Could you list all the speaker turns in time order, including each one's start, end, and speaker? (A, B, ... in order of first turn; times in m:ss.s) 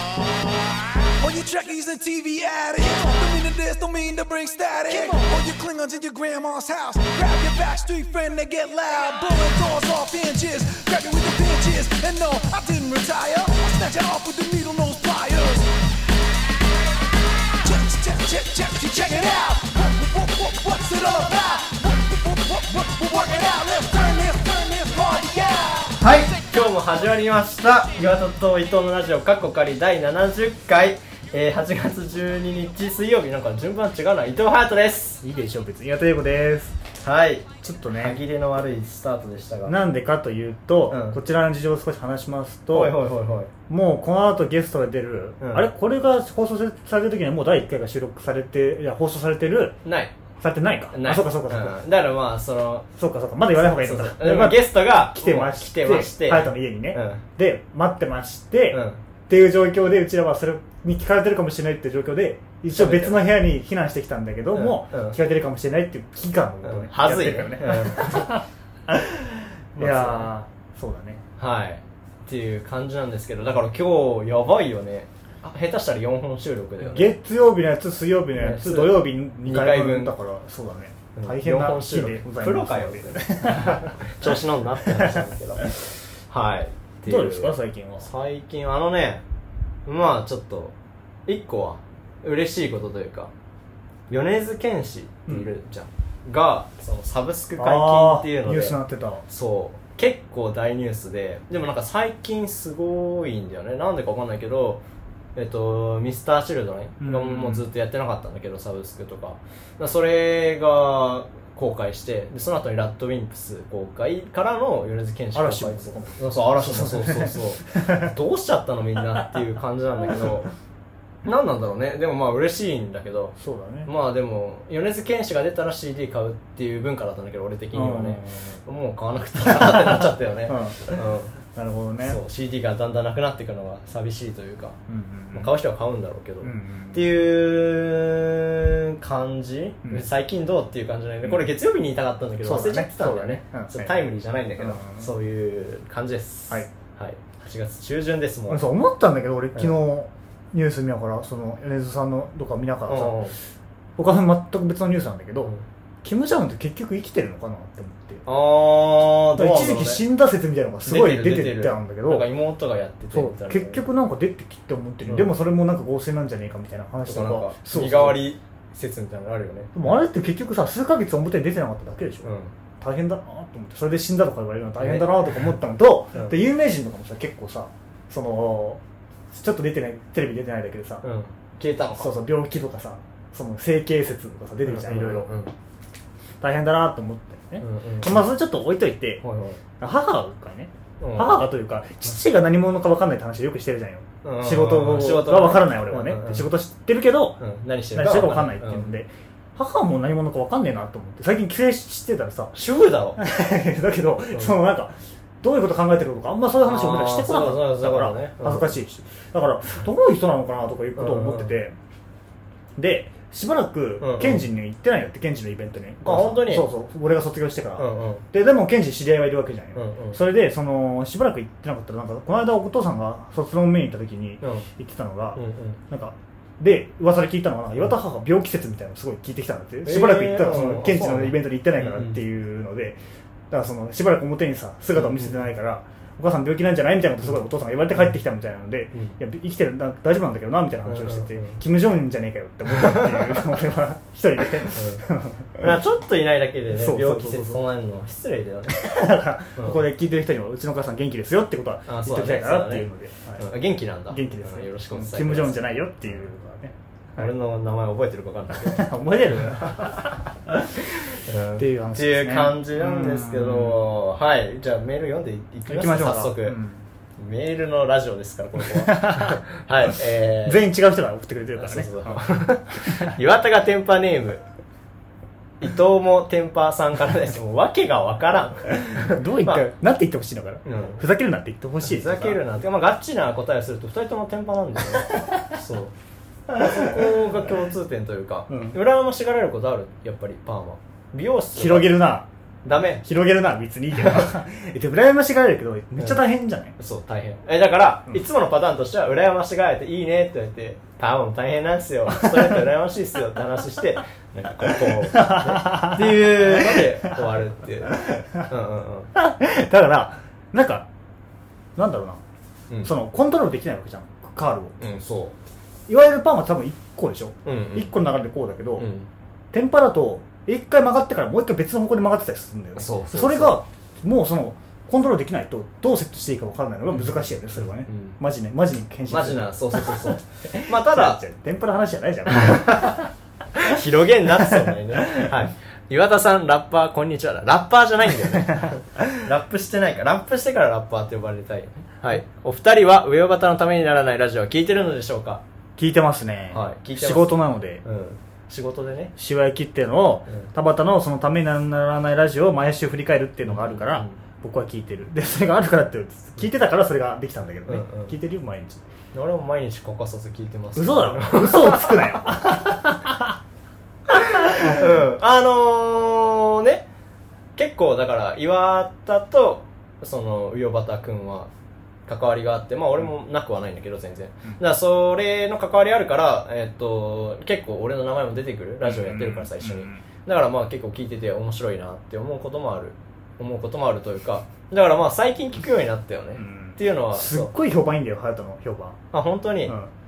0:01.1-0:15.7 A
0:17.6-0:26.3 A
0:26.0-0:35.2 B
0:35.2-0:36.8 C
0:37.0-0:39.8 B
0:37.6-0:38.2 C
0:39.6-0:43.0 C
0:40.9-0:41.2 B
0:42.7-0:43.5 B
0:43.7-0:49.8 C
0:45.4-0:45.7 B
0:49.8-0:50.1 B
0:50.4-0:51.8 C
0:50.9-0:52.9 B
0:53.0-1:11.2 C
0:53.5-0:57.2 B
0:58.7-0:59.0 B
1:02.7-1:03.2 B
1:04.5-1:05.2 B
1:06.6-1:08.3 B
1:09.8-1:10.3 B
1:11.4-1:17.1 B
1:16.8-1:25.9 C
1:18.4-1:20.1 B
1:21.2-1:29.2 B
1:27.0-1:28.1 C
1:29.8-1:30.7 B
1:31.3-1:33.3 B
1:34.1-1:38.8 B
1:37.6-1:39.2 C
1:39.3-1:44.8 B
1:45.4-2:00.5 B
1:47.0-1:47.6 C
1:55.3-1:58.1 C
2:01.2-2:11.4 B
2:03.4-2:03.9 C
2:07.7-2:08.6 C
2:09.4-2:12.2 C
2:12.0-2:14.8 B
2:14.9-2:15.5 C
2:15.3-2:28.7 B
2:16.4-2:17.0 C
2:21.2-2:21.5 C
2:22.4-2:25.1 C
2:28.5-2:33.2 C
2:32.9-2:33.3 B
2:34.0-2:35.5 C
2:36.0-2:38.2 C
2:38.2-2:40.0 B
2:39.3-2:42.3 C
2:40.8-2:43.8 B
2:43.1-2:48.3 C
2:47.0-2:49.8 B
2:49.7-3:01.0 C
2:52.2-2:52.5 B
2:54.8-2:55.3 B
3:01.0-3:02.2 B
3:02.0-3:05.3 C
3:04.6-3:05.5 B
3:06.4-3:09.2 C
3:07.6-3:08.2 B
3:09.2-3:09.6 B
3:09.8-3:17.4 C
3:11.0-3:11.5 B
3:14.2-3:16.5 B
3:17.4-3:18.9 B
3:17.9-3:22.5 C
3:22.5-3:23.2 B
3:23.2-3:31.7 C
3:26.6-3:28.8 B
3:31.0-3:31.5 B
3:32.8-3:53.0 C
3:34.0-3:34.4 B
3:36.0-3:36.7 B
3:37.8-3:38.2 B
3:39.7-3:40.2 B
3:44.4-3:44.7 B
3:45.3-3:45.8 B
3:49.8-3:52.2 B
3:53.5-4:05.7 C
3:55.0-3:55.3 B
4:00.9-4:01.6 B
4:02.7-4:03.4 B
4:04.7-4:05.0 B
4:05.6-4:08.8 B
4:06.7-4:07.7 C
4:08.7-4:13.4 C
4:11.9-4:15.6 B
4:14.1-4:17.3 C
4:17.2-4:18.9 B
4:18.5-4:23.8 C
4:21.3-4:26.6 B
4:25.7-4:26.8 C
4:27.2-4:30.6 B
4:28.6-4:33.2 C
4:31.6-4:34.4 B
4:35.6-4:39.6 B
4:38.8-4:42.4 C
4:40.6-4:41.0 B
4:41.8-4:45.9 B
4:46.5-4:52.0 B
4:46.5-4:47.0 C
4:48.5-4:48.8 C
4:51.5-4:52.3 C
4:52.6-4:53.0 B
4:53.0-4:56.7 C
4:54.0-4:54.3 B
4:56.8-5:09.1 B
5:02.2-5:02.5 C
5:04.6-5:07.2 C
5:07.9-5:08.4 C
5:09.1-5:10.9 C
5:11.8-5:12.2 C
5:12.7-5:12.9 B
5:12.8-5:15.0 C
5:14.8-5:15.3 B
5:15.9-5:18.9 C
5:17.4-5:17.9 B
5:18.8-5:19.1 B
5:19.5-5:33.1 C
5:22.8-5:23.6 B
5:26.9-5:28.2 B
5:29.1-5:31.2 B
5:32.3-5:33.0 B
5:33.5-5:45.4 B
5:34.4-5:35.4 C
5:45.8-5:47.8 C
5:46.5-5:49.1 B
5:49.2-5:58.8 C
5:53.4-5:54.2 B
5:57.7-5:58.1 B
5:59.1-6:02.2 B
6:00.8-6:03.4 C
6:04.1-6:06.9 B
6:04.2-6:04.9 C
6:07.6-6:11.5 B
6:12.1-6:27.5 B
6:18.8-6:20.0 C
6:26.4-6:29.0 C
6:29.1-6:29.8 B